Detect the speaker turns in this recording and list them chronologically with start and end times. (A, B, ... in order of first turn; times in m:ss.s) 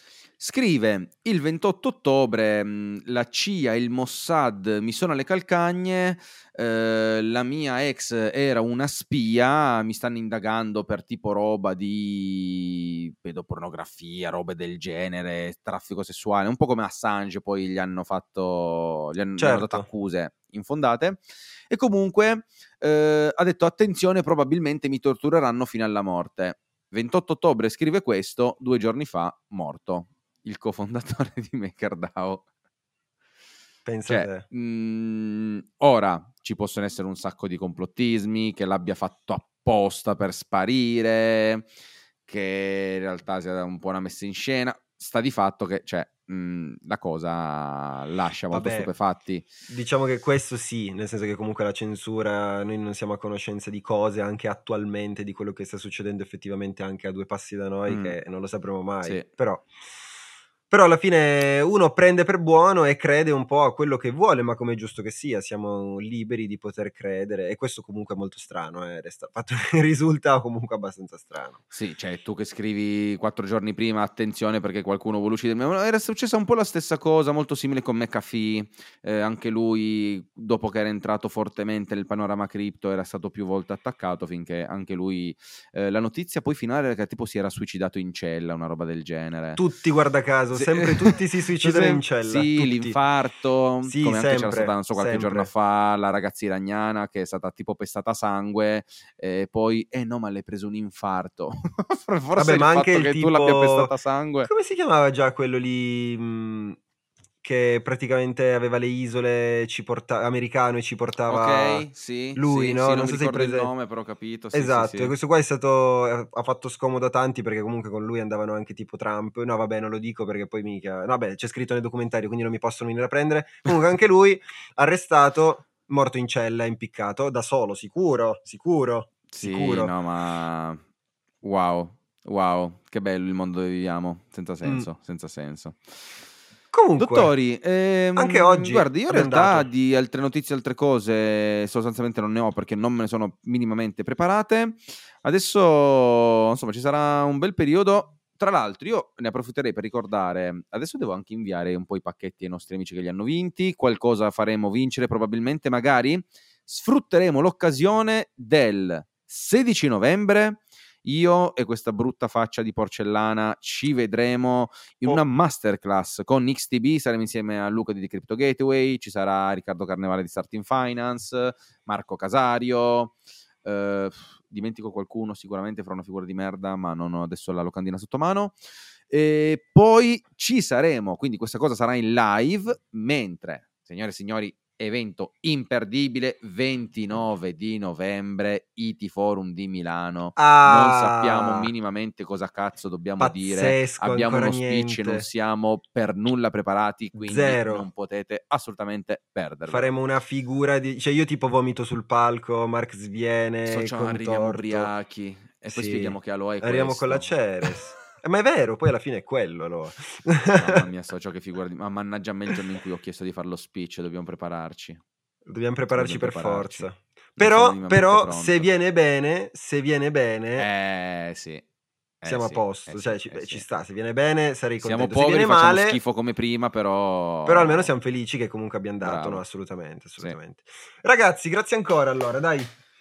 0:00.4-0:32.4 A
0:19.4-0:19.9 B
0:33.8-0:34.4 B
0:34.1-0:41.7 A
0:42.2-0:49.5 A
0:48.5-0:48.9 B
0:49.7-0:59.7 B
0:57.9-0:58.2 A
0:59.0-0:59.3 A
1:00.7-1:11.6 B
1:11.7-1:29.6 A
1:29.6-1:33.0 B
1:30.5-1:44.5 A
1:33.8-1:35.5 B
1:42.4-1:43.9 B
1:44.4-1:46.8 B
1:47.4-1:53.7 B
1:51.3-1:55.1 A
1:54.5-2:09.9 B
2:09.3-2:10.8 A
2:11.4-2:15.8 A
2:16.7-2:17.3 B
2:17.0-2:58.6 A
2:18.2-2:19.7 B
2:59.1-3:19.9 A
3:10.4-3:11.7 B
3:13.2-3:15.2 B
3:17.2-3:17.9 B
3:19.7-3:24.9 B
3:23.6-3:27.3 A
3:25.7-3:30.8 B
3:30.5-3:35.0 A
3:35.4-3:40.7 B
3:35.9-3:38.7 A
3:40.6-3:41.6 A
3:42.2-3:43.6 A
3:42.2-3:46.0 B
3:44.8-3:47.9 A
3:47.4-3:52.7 B
3:49.0-3:49.4 A